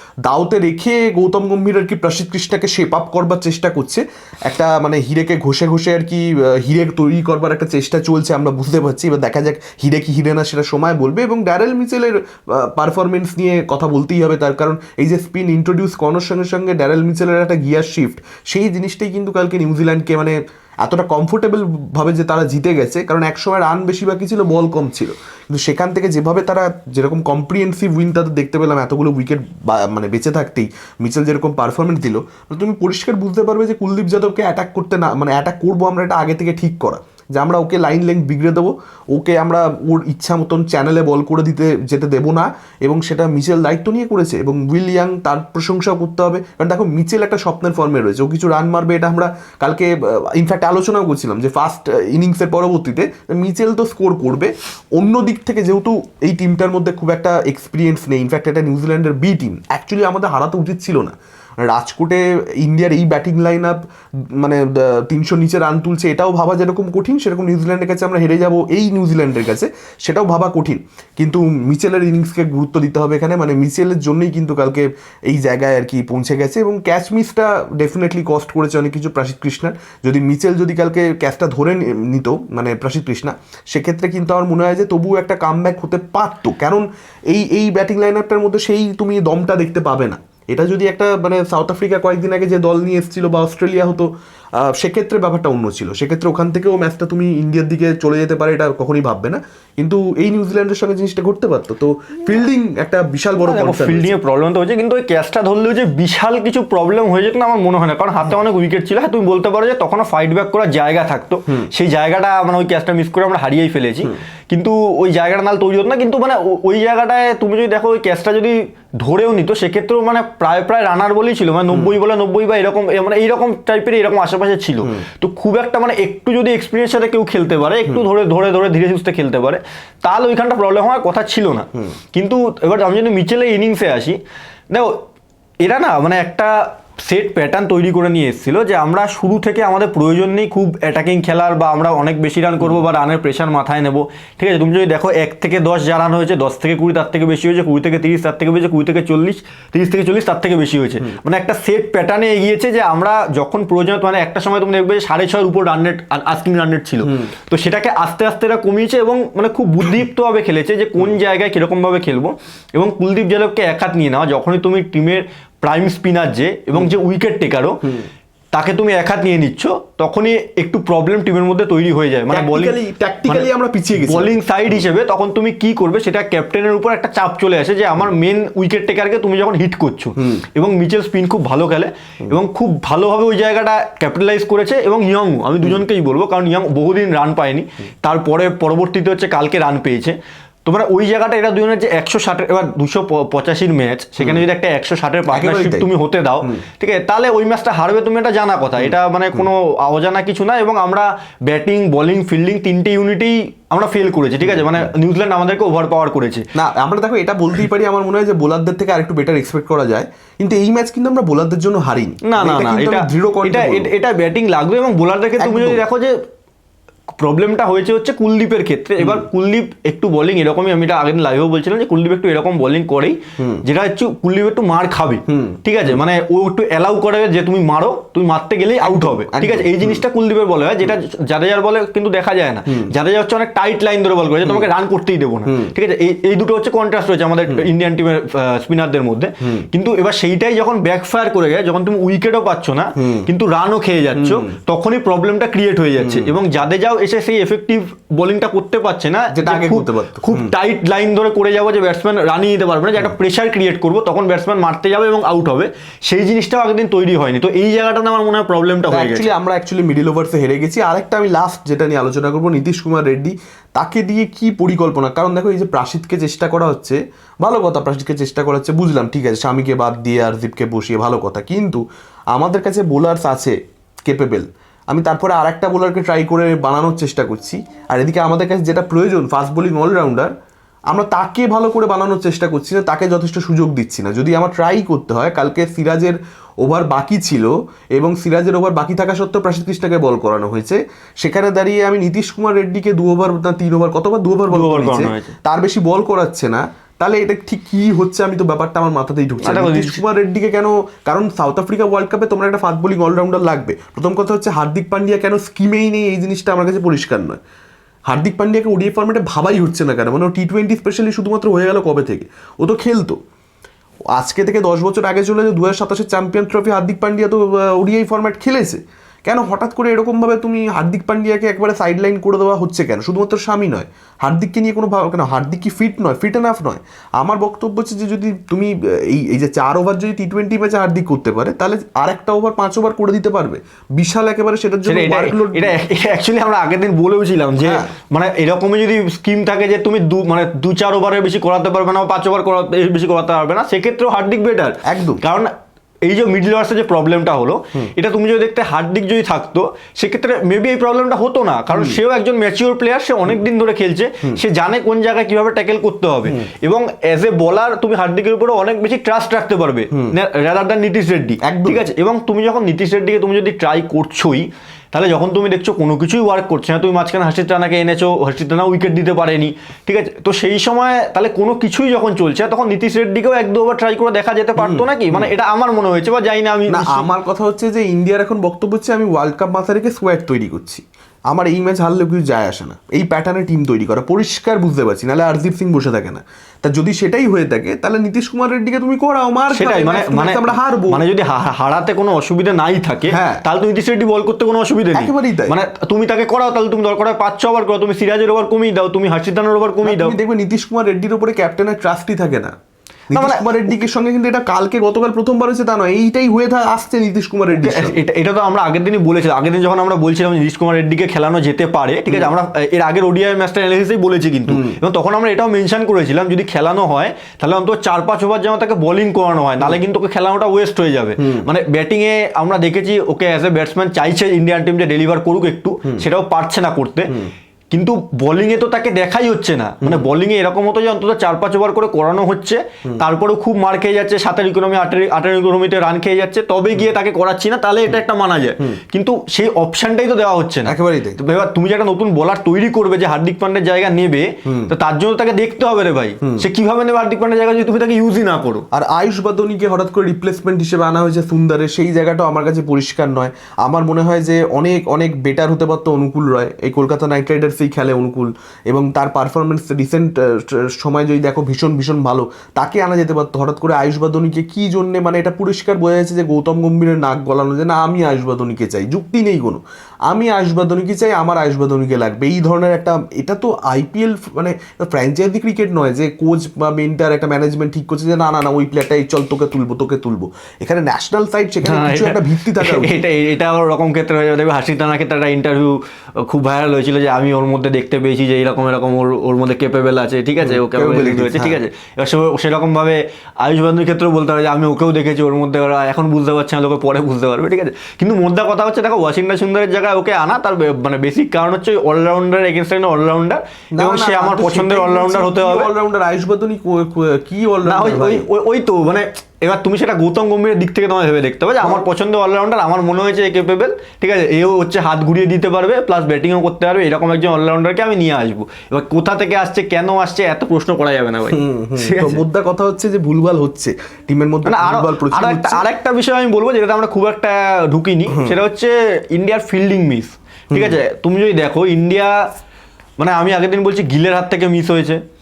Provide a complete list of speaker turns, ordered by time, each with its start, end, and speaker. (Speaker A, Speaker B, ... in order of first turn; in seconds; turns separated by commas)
Speaker A: 0.2-63.8, Speaker A: 64.3-104.2, Speaker B: 103.4-134.2, Speaker B: 134.7-135.0, Speaker B: 135.6-167.8, Speaker A: 157.0-157.3, Speaker B: 168.5-172.8, Speaker A: 172.3-174.3, Speaker B: 173.3-206.5, Speaker A: 180.2-180.4, Speaker A: 195.3-196.6, Speaker A: 204.4-204.9, Speaker A: 206.6-213.9, Speaker B: 212.2-216.2, Speaker A: 215.4-215.8, Speaker B: 217.2-259.3, Speaker A: 219.0-219.3, Speaker A: 223.4-223.6, Speaker A: 225.3-226.0, Speaker A: 228.8-230.0, Speaker A: 232.7-232.9, Speaker A: 235.5-235.7, Speaker A: 239.4-239.7, Speaker A: 243.0-243.3, Speaker A: 244.2-244.6, Speaker A: 246.0-246.3, Speaker A: 249.3-250.5, Speaker A: 258.9-271.8, Speaker A: 272.3-280.3, Speaker A: 280.9-307.4, Speaker B: 294.5-295.3, Speaker B: 299.4-300.0, Speaker A: 308.1-313.2, Speaker A: 314.1-335.8, Speaker B: 334.9-345.5, Speaker A: 337.6-337.9, Speaker A: 344.9-345.2, Speaker B: 346.0-377.1, Speaker A: 351.7-352.0, Speaker A: 361.4-361.8, Speaker A: 374.6-375.3, Speaker A: 376.7-391.0, Speaker B: 389.5-400.1, Speaker A: 393.1-393.4, Speaker A: 394.9-395.6, Speaker A: 399.8-402.5, Speaker A: 403.1-408.0, Speaker B: 403.1-403.7, Speaker B: 407.5-427.1, Speaker A: 414.5-414.8, Speaker A: 421.2-421.5, Speaker B: 427.7-448.6, Speaker A: 440.7-441.2, Speaker A: 444.5-444.7, Speaker A: 448.7-482.9, Speaker B: 481.6-505.7, Speaker A: 490.4-491.6, Speaker A: 503.8-508.3, Speaker B: 507.7-522.2, Speaker A: 521.3-525.6, Speaker B: 524.5-532.2, Speaker A: 528.1-528.4, Speaker A: 530.5-530.8, Speaker B: 533.0-535.0